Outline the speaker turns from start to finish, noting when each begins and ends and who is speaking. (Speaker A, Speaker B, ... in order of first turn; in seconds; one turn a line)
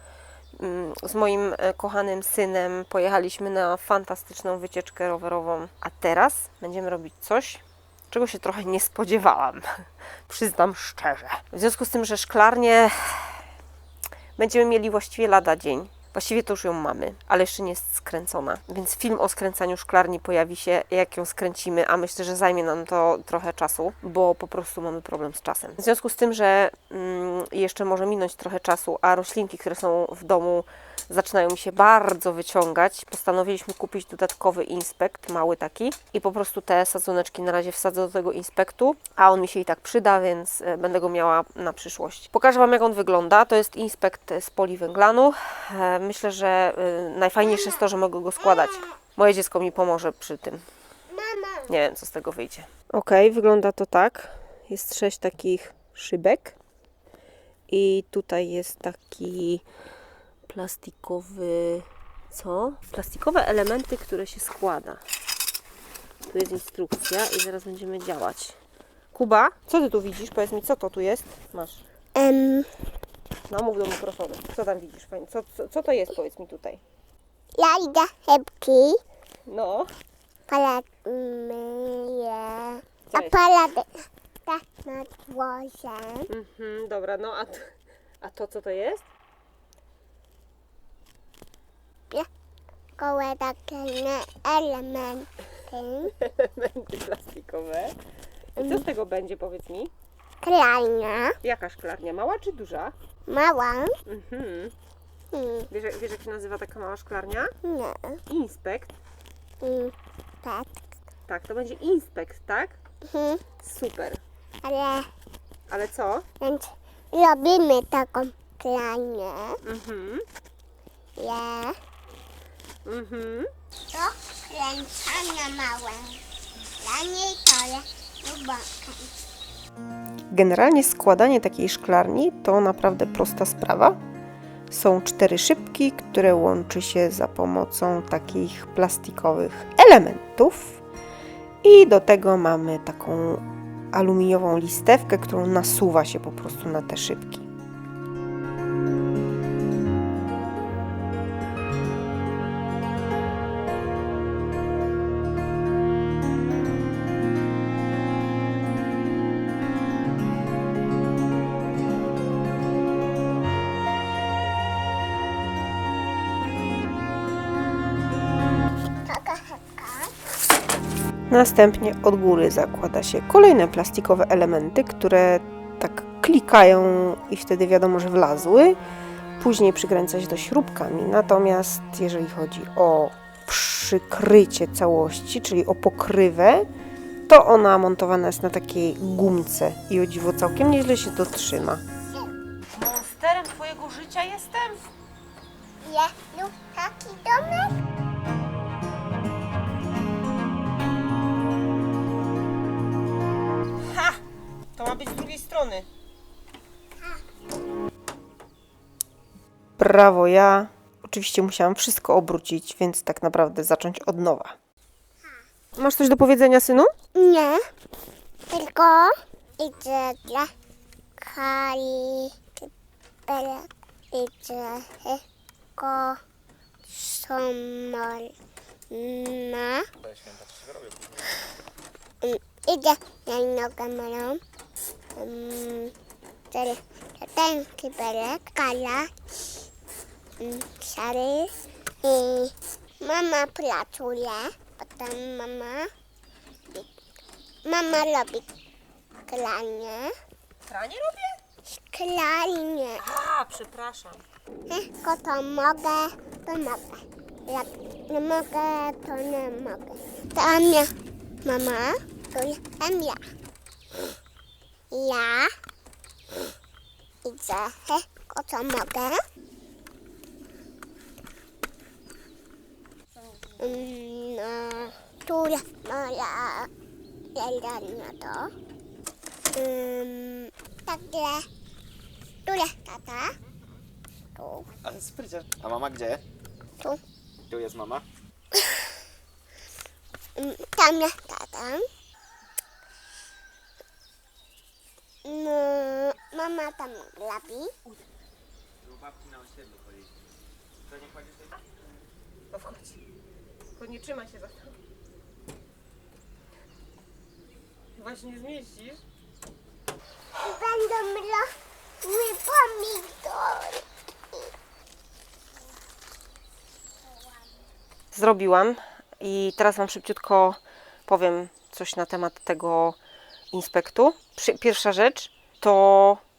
Speaker A: 0.6-13.4
Speaker A: 14.3-50.6
Speaker B: 51.1-51.7
Speaker A: 51.6-56.6
Speaker A: 57.7-59.6
Speaker A: 60.5-65.0
Speaker A: 66.2-68.6
Speaker A: 69.1-71.8
Speaker B: 72.2-72.7
Speaker A: 73.5-76.8
Speaker B: 77.5-79.0
Speaker A: 79.5-79.9
Speaker B: 80.5-86.3
Speaker A: 83.1-83.5
Speaker A: 86.3-89.1
Speaker B: 93.0-96.1
Speaker A: 96.0-97.9
Speaker A: 98.6-99.9
Speaker B: 100.4-101.3
Speaker A: 101.4-102.9
Speaker B: 103.3-103.9
Speaker A: 104.0-104.7
Speaker B: 105.3-105.7
Speaker A: 105.7-107.5
Speaker B: 107.6-108.2
Speaker A: 108.3-108.9
Speaker B: 109.6-110.8
Speaker A: 111.3-112.8
Speaker B: 113.1-113.4
Speaker A: 113.6-114.2
Speaker B: 114.6-115.1
Speaker A: 115.7-116.2
Speaker B: 116.4-119.6
Speaker A: 119.6-120.2
Speaker B: 121.2-121.8
Speaker A: 122.8-123.5
Speaker B: 123.9-126.2
Speaker B: 126.8-129.1
Speaker A: 130.3-134.0
Speaker A: 134.7-140.8
Speaker A: 141.6-147.5
Speaker B: 169.0-170.1
Speaker A: 171.3-178.8
Speaker A: 179.4-186.7
Speaker A: 187.3-191.8
Speaker A: 192.7-194.9
Speaker B: 195.8-197.8
Speaker A: 203.8-204.2
Speaker A: 204.7-205.9
Speaker A: 209.8-214.6
Speaker A: 215.8-216.9
Speaker B: 217.1-217.6
Speaker B: 218.5-220.5
Speaker B: 221.2-222.7
Speaker B: 223.3-225.2
Speaker B: 225.8-226.2
Speaker B: 226.9-228.3
Speaker B: 228.9-229.8
Speaker B: 232.2-234.4
Speaker B: 235.2-235.9
Speaker B: 236.5-239.1
Speaker B: 240.4-245.9
Speaker B: 247.6-248.5
Speaker B: 249.3-250.1
Speaker A: 250.7-251.4
Speaker B: 251.9-253.0
Speaker A: 253.0-254.2
Speaker B: 254.7-260.9
Speaker B: 261.4-263.2
Speaker B: 264.9-265.5
Speaker B: 267.2-269.2
Speaker B: 273.6-276.7
Speaker B: 277.3-278.5
Speaker B: 279.5-281.5
Speaker B: 282.4-283.3
Speaker B: 284.4-284.7
Speaker C: 284.8-286.2
Speaker C: 287.5-288.1
Speaker B: 290.4-291.9
Speaker B: 295.2-297.7
Speaker A: 302.5-303.0
Speaker A: 303.8-304.8
Speaker A: 307.9-309.0
Speaker B: 310.4-311.5
Speaker B: 312.0-313.8
Speaker A: 318.1-323.0
Speaker A: 323.5-326.2